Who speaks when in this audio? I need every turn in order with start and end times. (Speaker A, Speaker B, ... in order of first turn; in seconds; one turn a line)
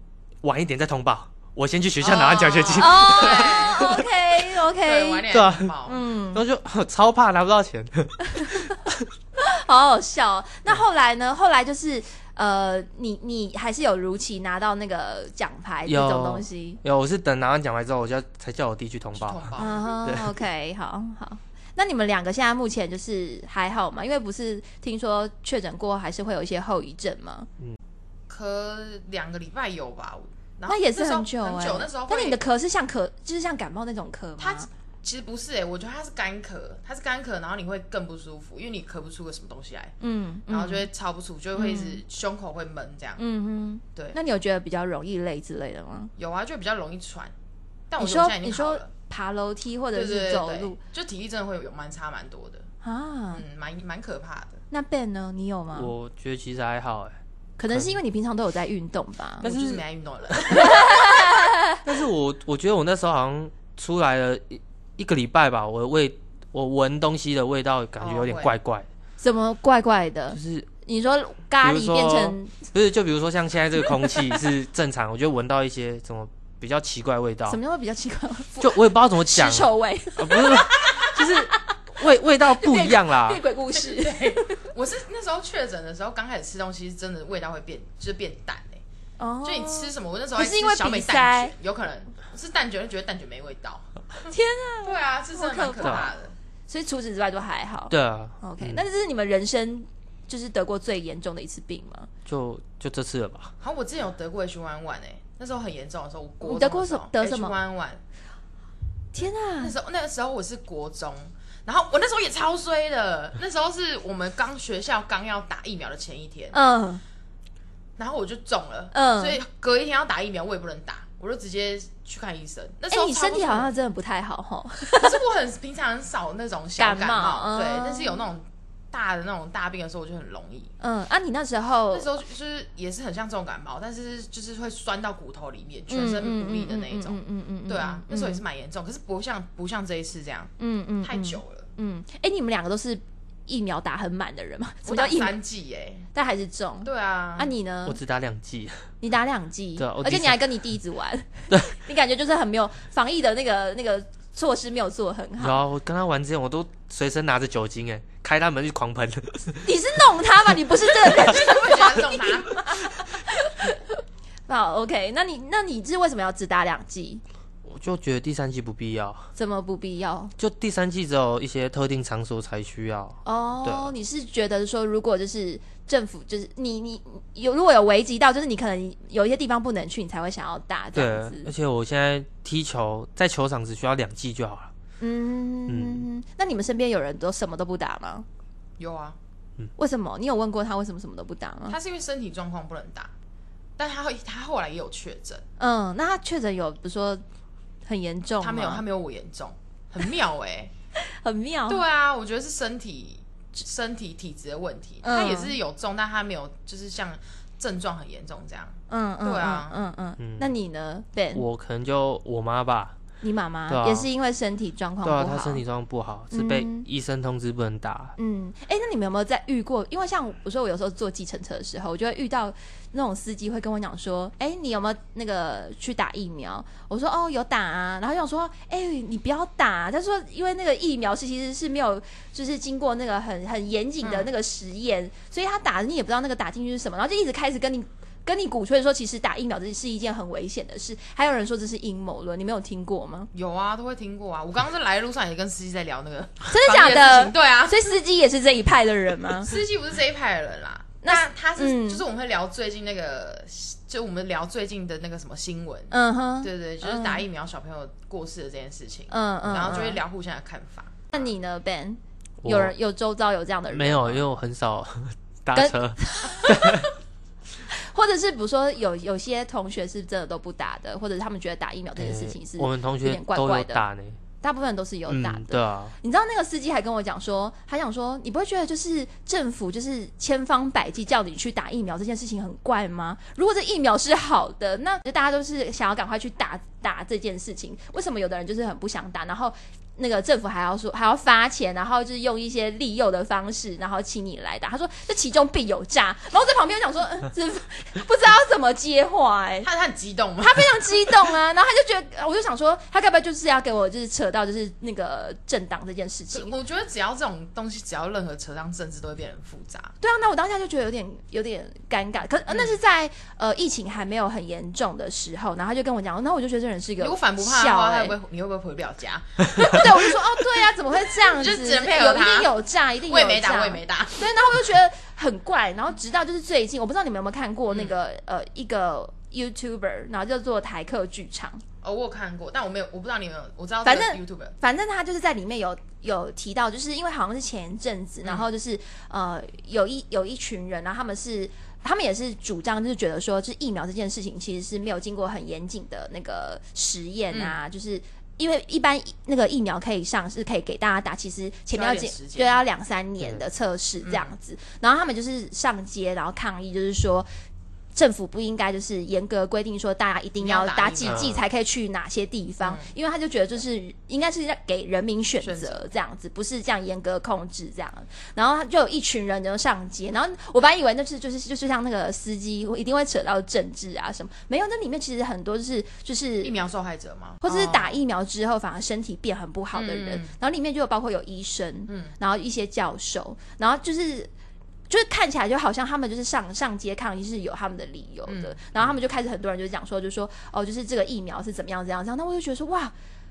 Speaker A: 0.4-4.1
Speaker B: 2.0-5.3
Speaker C: 2.8-4.1
Speaker C: 4.7-6.0
Speaker A: 5.3-5.8
Speaker B: 5.8-6.4
Speaker A: 6.3-9.1
Speaker B: 8.3-8.7
Speaker B: 9.4-16.8
Speaker A: 15.9-20.4
Speaker C: 19.1-19.9
Speaker B: 19.6-27.5
Speaker C: 28.3-32.4
Speaker B: 30.7-34.7
Speaker C: 34.4-40.0
Speaker B: 40.0-40.9
Speaker C: 40.5-43.2
Speaker B: 41.5-42.0
Speaker B: 43.2-46.1
Speaker C: 46.2-47.3
Speaker C: 47.9-48.9
Speaker B: 48.0-50.8
Speaker C: 49.9-52.7
Speaker B: 52.8-53.4
Speaker C: 53.3-54.6
Speaker B: 54.7-55.9
Speaker A: 55.7-57.2
Speaker B: 57.6-59.5
Speaker A: 57.7-58.0
Speaker C: 59.4-61.0
Speaker A: 59.4-59.8
Speaker B: 60.5-61.8
Speaker A: 61.9-68.9
Speaker C: 68.0-68.5
Speaker B: 69.2-72.7
Speaker A: 70.3-70.7
Speaker A: 71.6-77.6
Speaker B: 73.8-74.3
Speaker B: 77.5-81.8
Speaker A: 78.6-83.4
Speaker B: 82.4-84.7
Speaker C: 83.8-88.8
Speaker B: 89.2-91.5
Speaker C: 89.4-94.3
Speaker B: 94.3-96.1
Speaker C: 94.8-96.3
Speaker B: 96.7-102.1
Speaker A: 97.9-98.8
Speaker A: 102.3-103.5
Speaker C: 103.6-108.0
Speaker B: 106.4-107.6
Speaker B: 109.1-109.8
Speaker C: 109.6-116.6
Speaker B: 116.5-117.0
Speaker C: 118.0-123.7
Speaker B: 118.9-119.4
Speaker B: 122.9-125.2
Speaker C: 125.0-130.7
Speaker B: 126.8-128.2
Speaker B: 130.8-132.1
Speaker C: 131.9-141.7
Speaker B: 135.9-138.4
Speaker B: 140.6-145.3
Speaker C: 144.8-146.1
Speaker B: 146.1-148.0
Speaker C: 146.8-147.5
Speaker A: 147.9-148.8
Speaker B: 149.0-155.6
Speaker A: 149.8-150.5
Speaker A: 155.4-159.7
Speaker B: 159.6-164.0
Speaker A: 161.1-161.4
Speaker C: 161.1-162.7
Speaker B: 164.5-167.2
Speaker A: 167.7-169.3
Speaker B: 169.4-170.3
Speaker A: 170.4-173.9
Speaker B: 173.2-181.5
Speaker A: 180.9-184.7
Speaker B: 185.0-188.3
Speaker A: 185.7-186.1
Speaker C: 188.8-189.2
Speaker B: 189.8-191.8
Speaker C: 191.7-193.1
Speaker C: 193.8-195.4
Speaker B: 195.6-197.2
Speaker B: 197.9-198.8
Speaker C: 198.4-200.7
Speaker B: 201.1-201.8
Speaker C: 201.7-209.8
Speaker B: 205.0-205.6
Speaker B: 208.9-211.4
Speaker A: 210.2-210.5
Speaker A: 211.3-213.0
Speaker B: 213.2-215.6
Speaker A: 213.7-214.1
Speaker A: 215.0-218.2
Speaker B: 216.3-216.9
Speaker B: 218.2-243.3
Speaker C: 234.0-234.3
Speaker C: 243.3-247.9
Speaker B: 246.5-249.6
Speaker C: 249.4-261.3
Speaker B: 251.0-252.0
Speaker B: 255.9-257.2
Speaker B: 259.1-260.0
Speaker B: 261.1-264.3
Speaker A: 262.4-262.7
Speaker A: 263.7-266.9
Speaker B: 265.6-266.9
Speaker B: 267.7-273.8
Speaker A: 272.0-274.2
Speaker B: 274.4-299.7
Speaker A: 275.1-275.9
Speaker C: 299.6-301.2
Speaker B: 300.4-306.6
Speaker C: 306.3-309.9
Speaker B: 310.0-318.2
Speaker C: 317.0-322.5
Speaker B: 319.6-331.6
Speaker C: 323.1-324.7
Speaker C: 327.7-328.0
Speaker C: 331.8-334.6
Speaker B: 333.8-357.3
Speaker C: 338.2-338.5
Speaker C: 351.7-352.6
Speaker C: 354.0-354.3
Speaker B: 357.9-376.5
Speaker C: 360.4-361.4
Speaker A: 361.1-361.4
Speaker C: 362.6-362.9
Speaker C: 365.4-365.8
Speaker C: 376.4-378.0
Speaker B: 377.4-384.3
Speaker C: 379.7-380.3
Speaker C: 381.9-382.2
Speaker B: 384.9-392.9
Speaker C: 388.3-388.6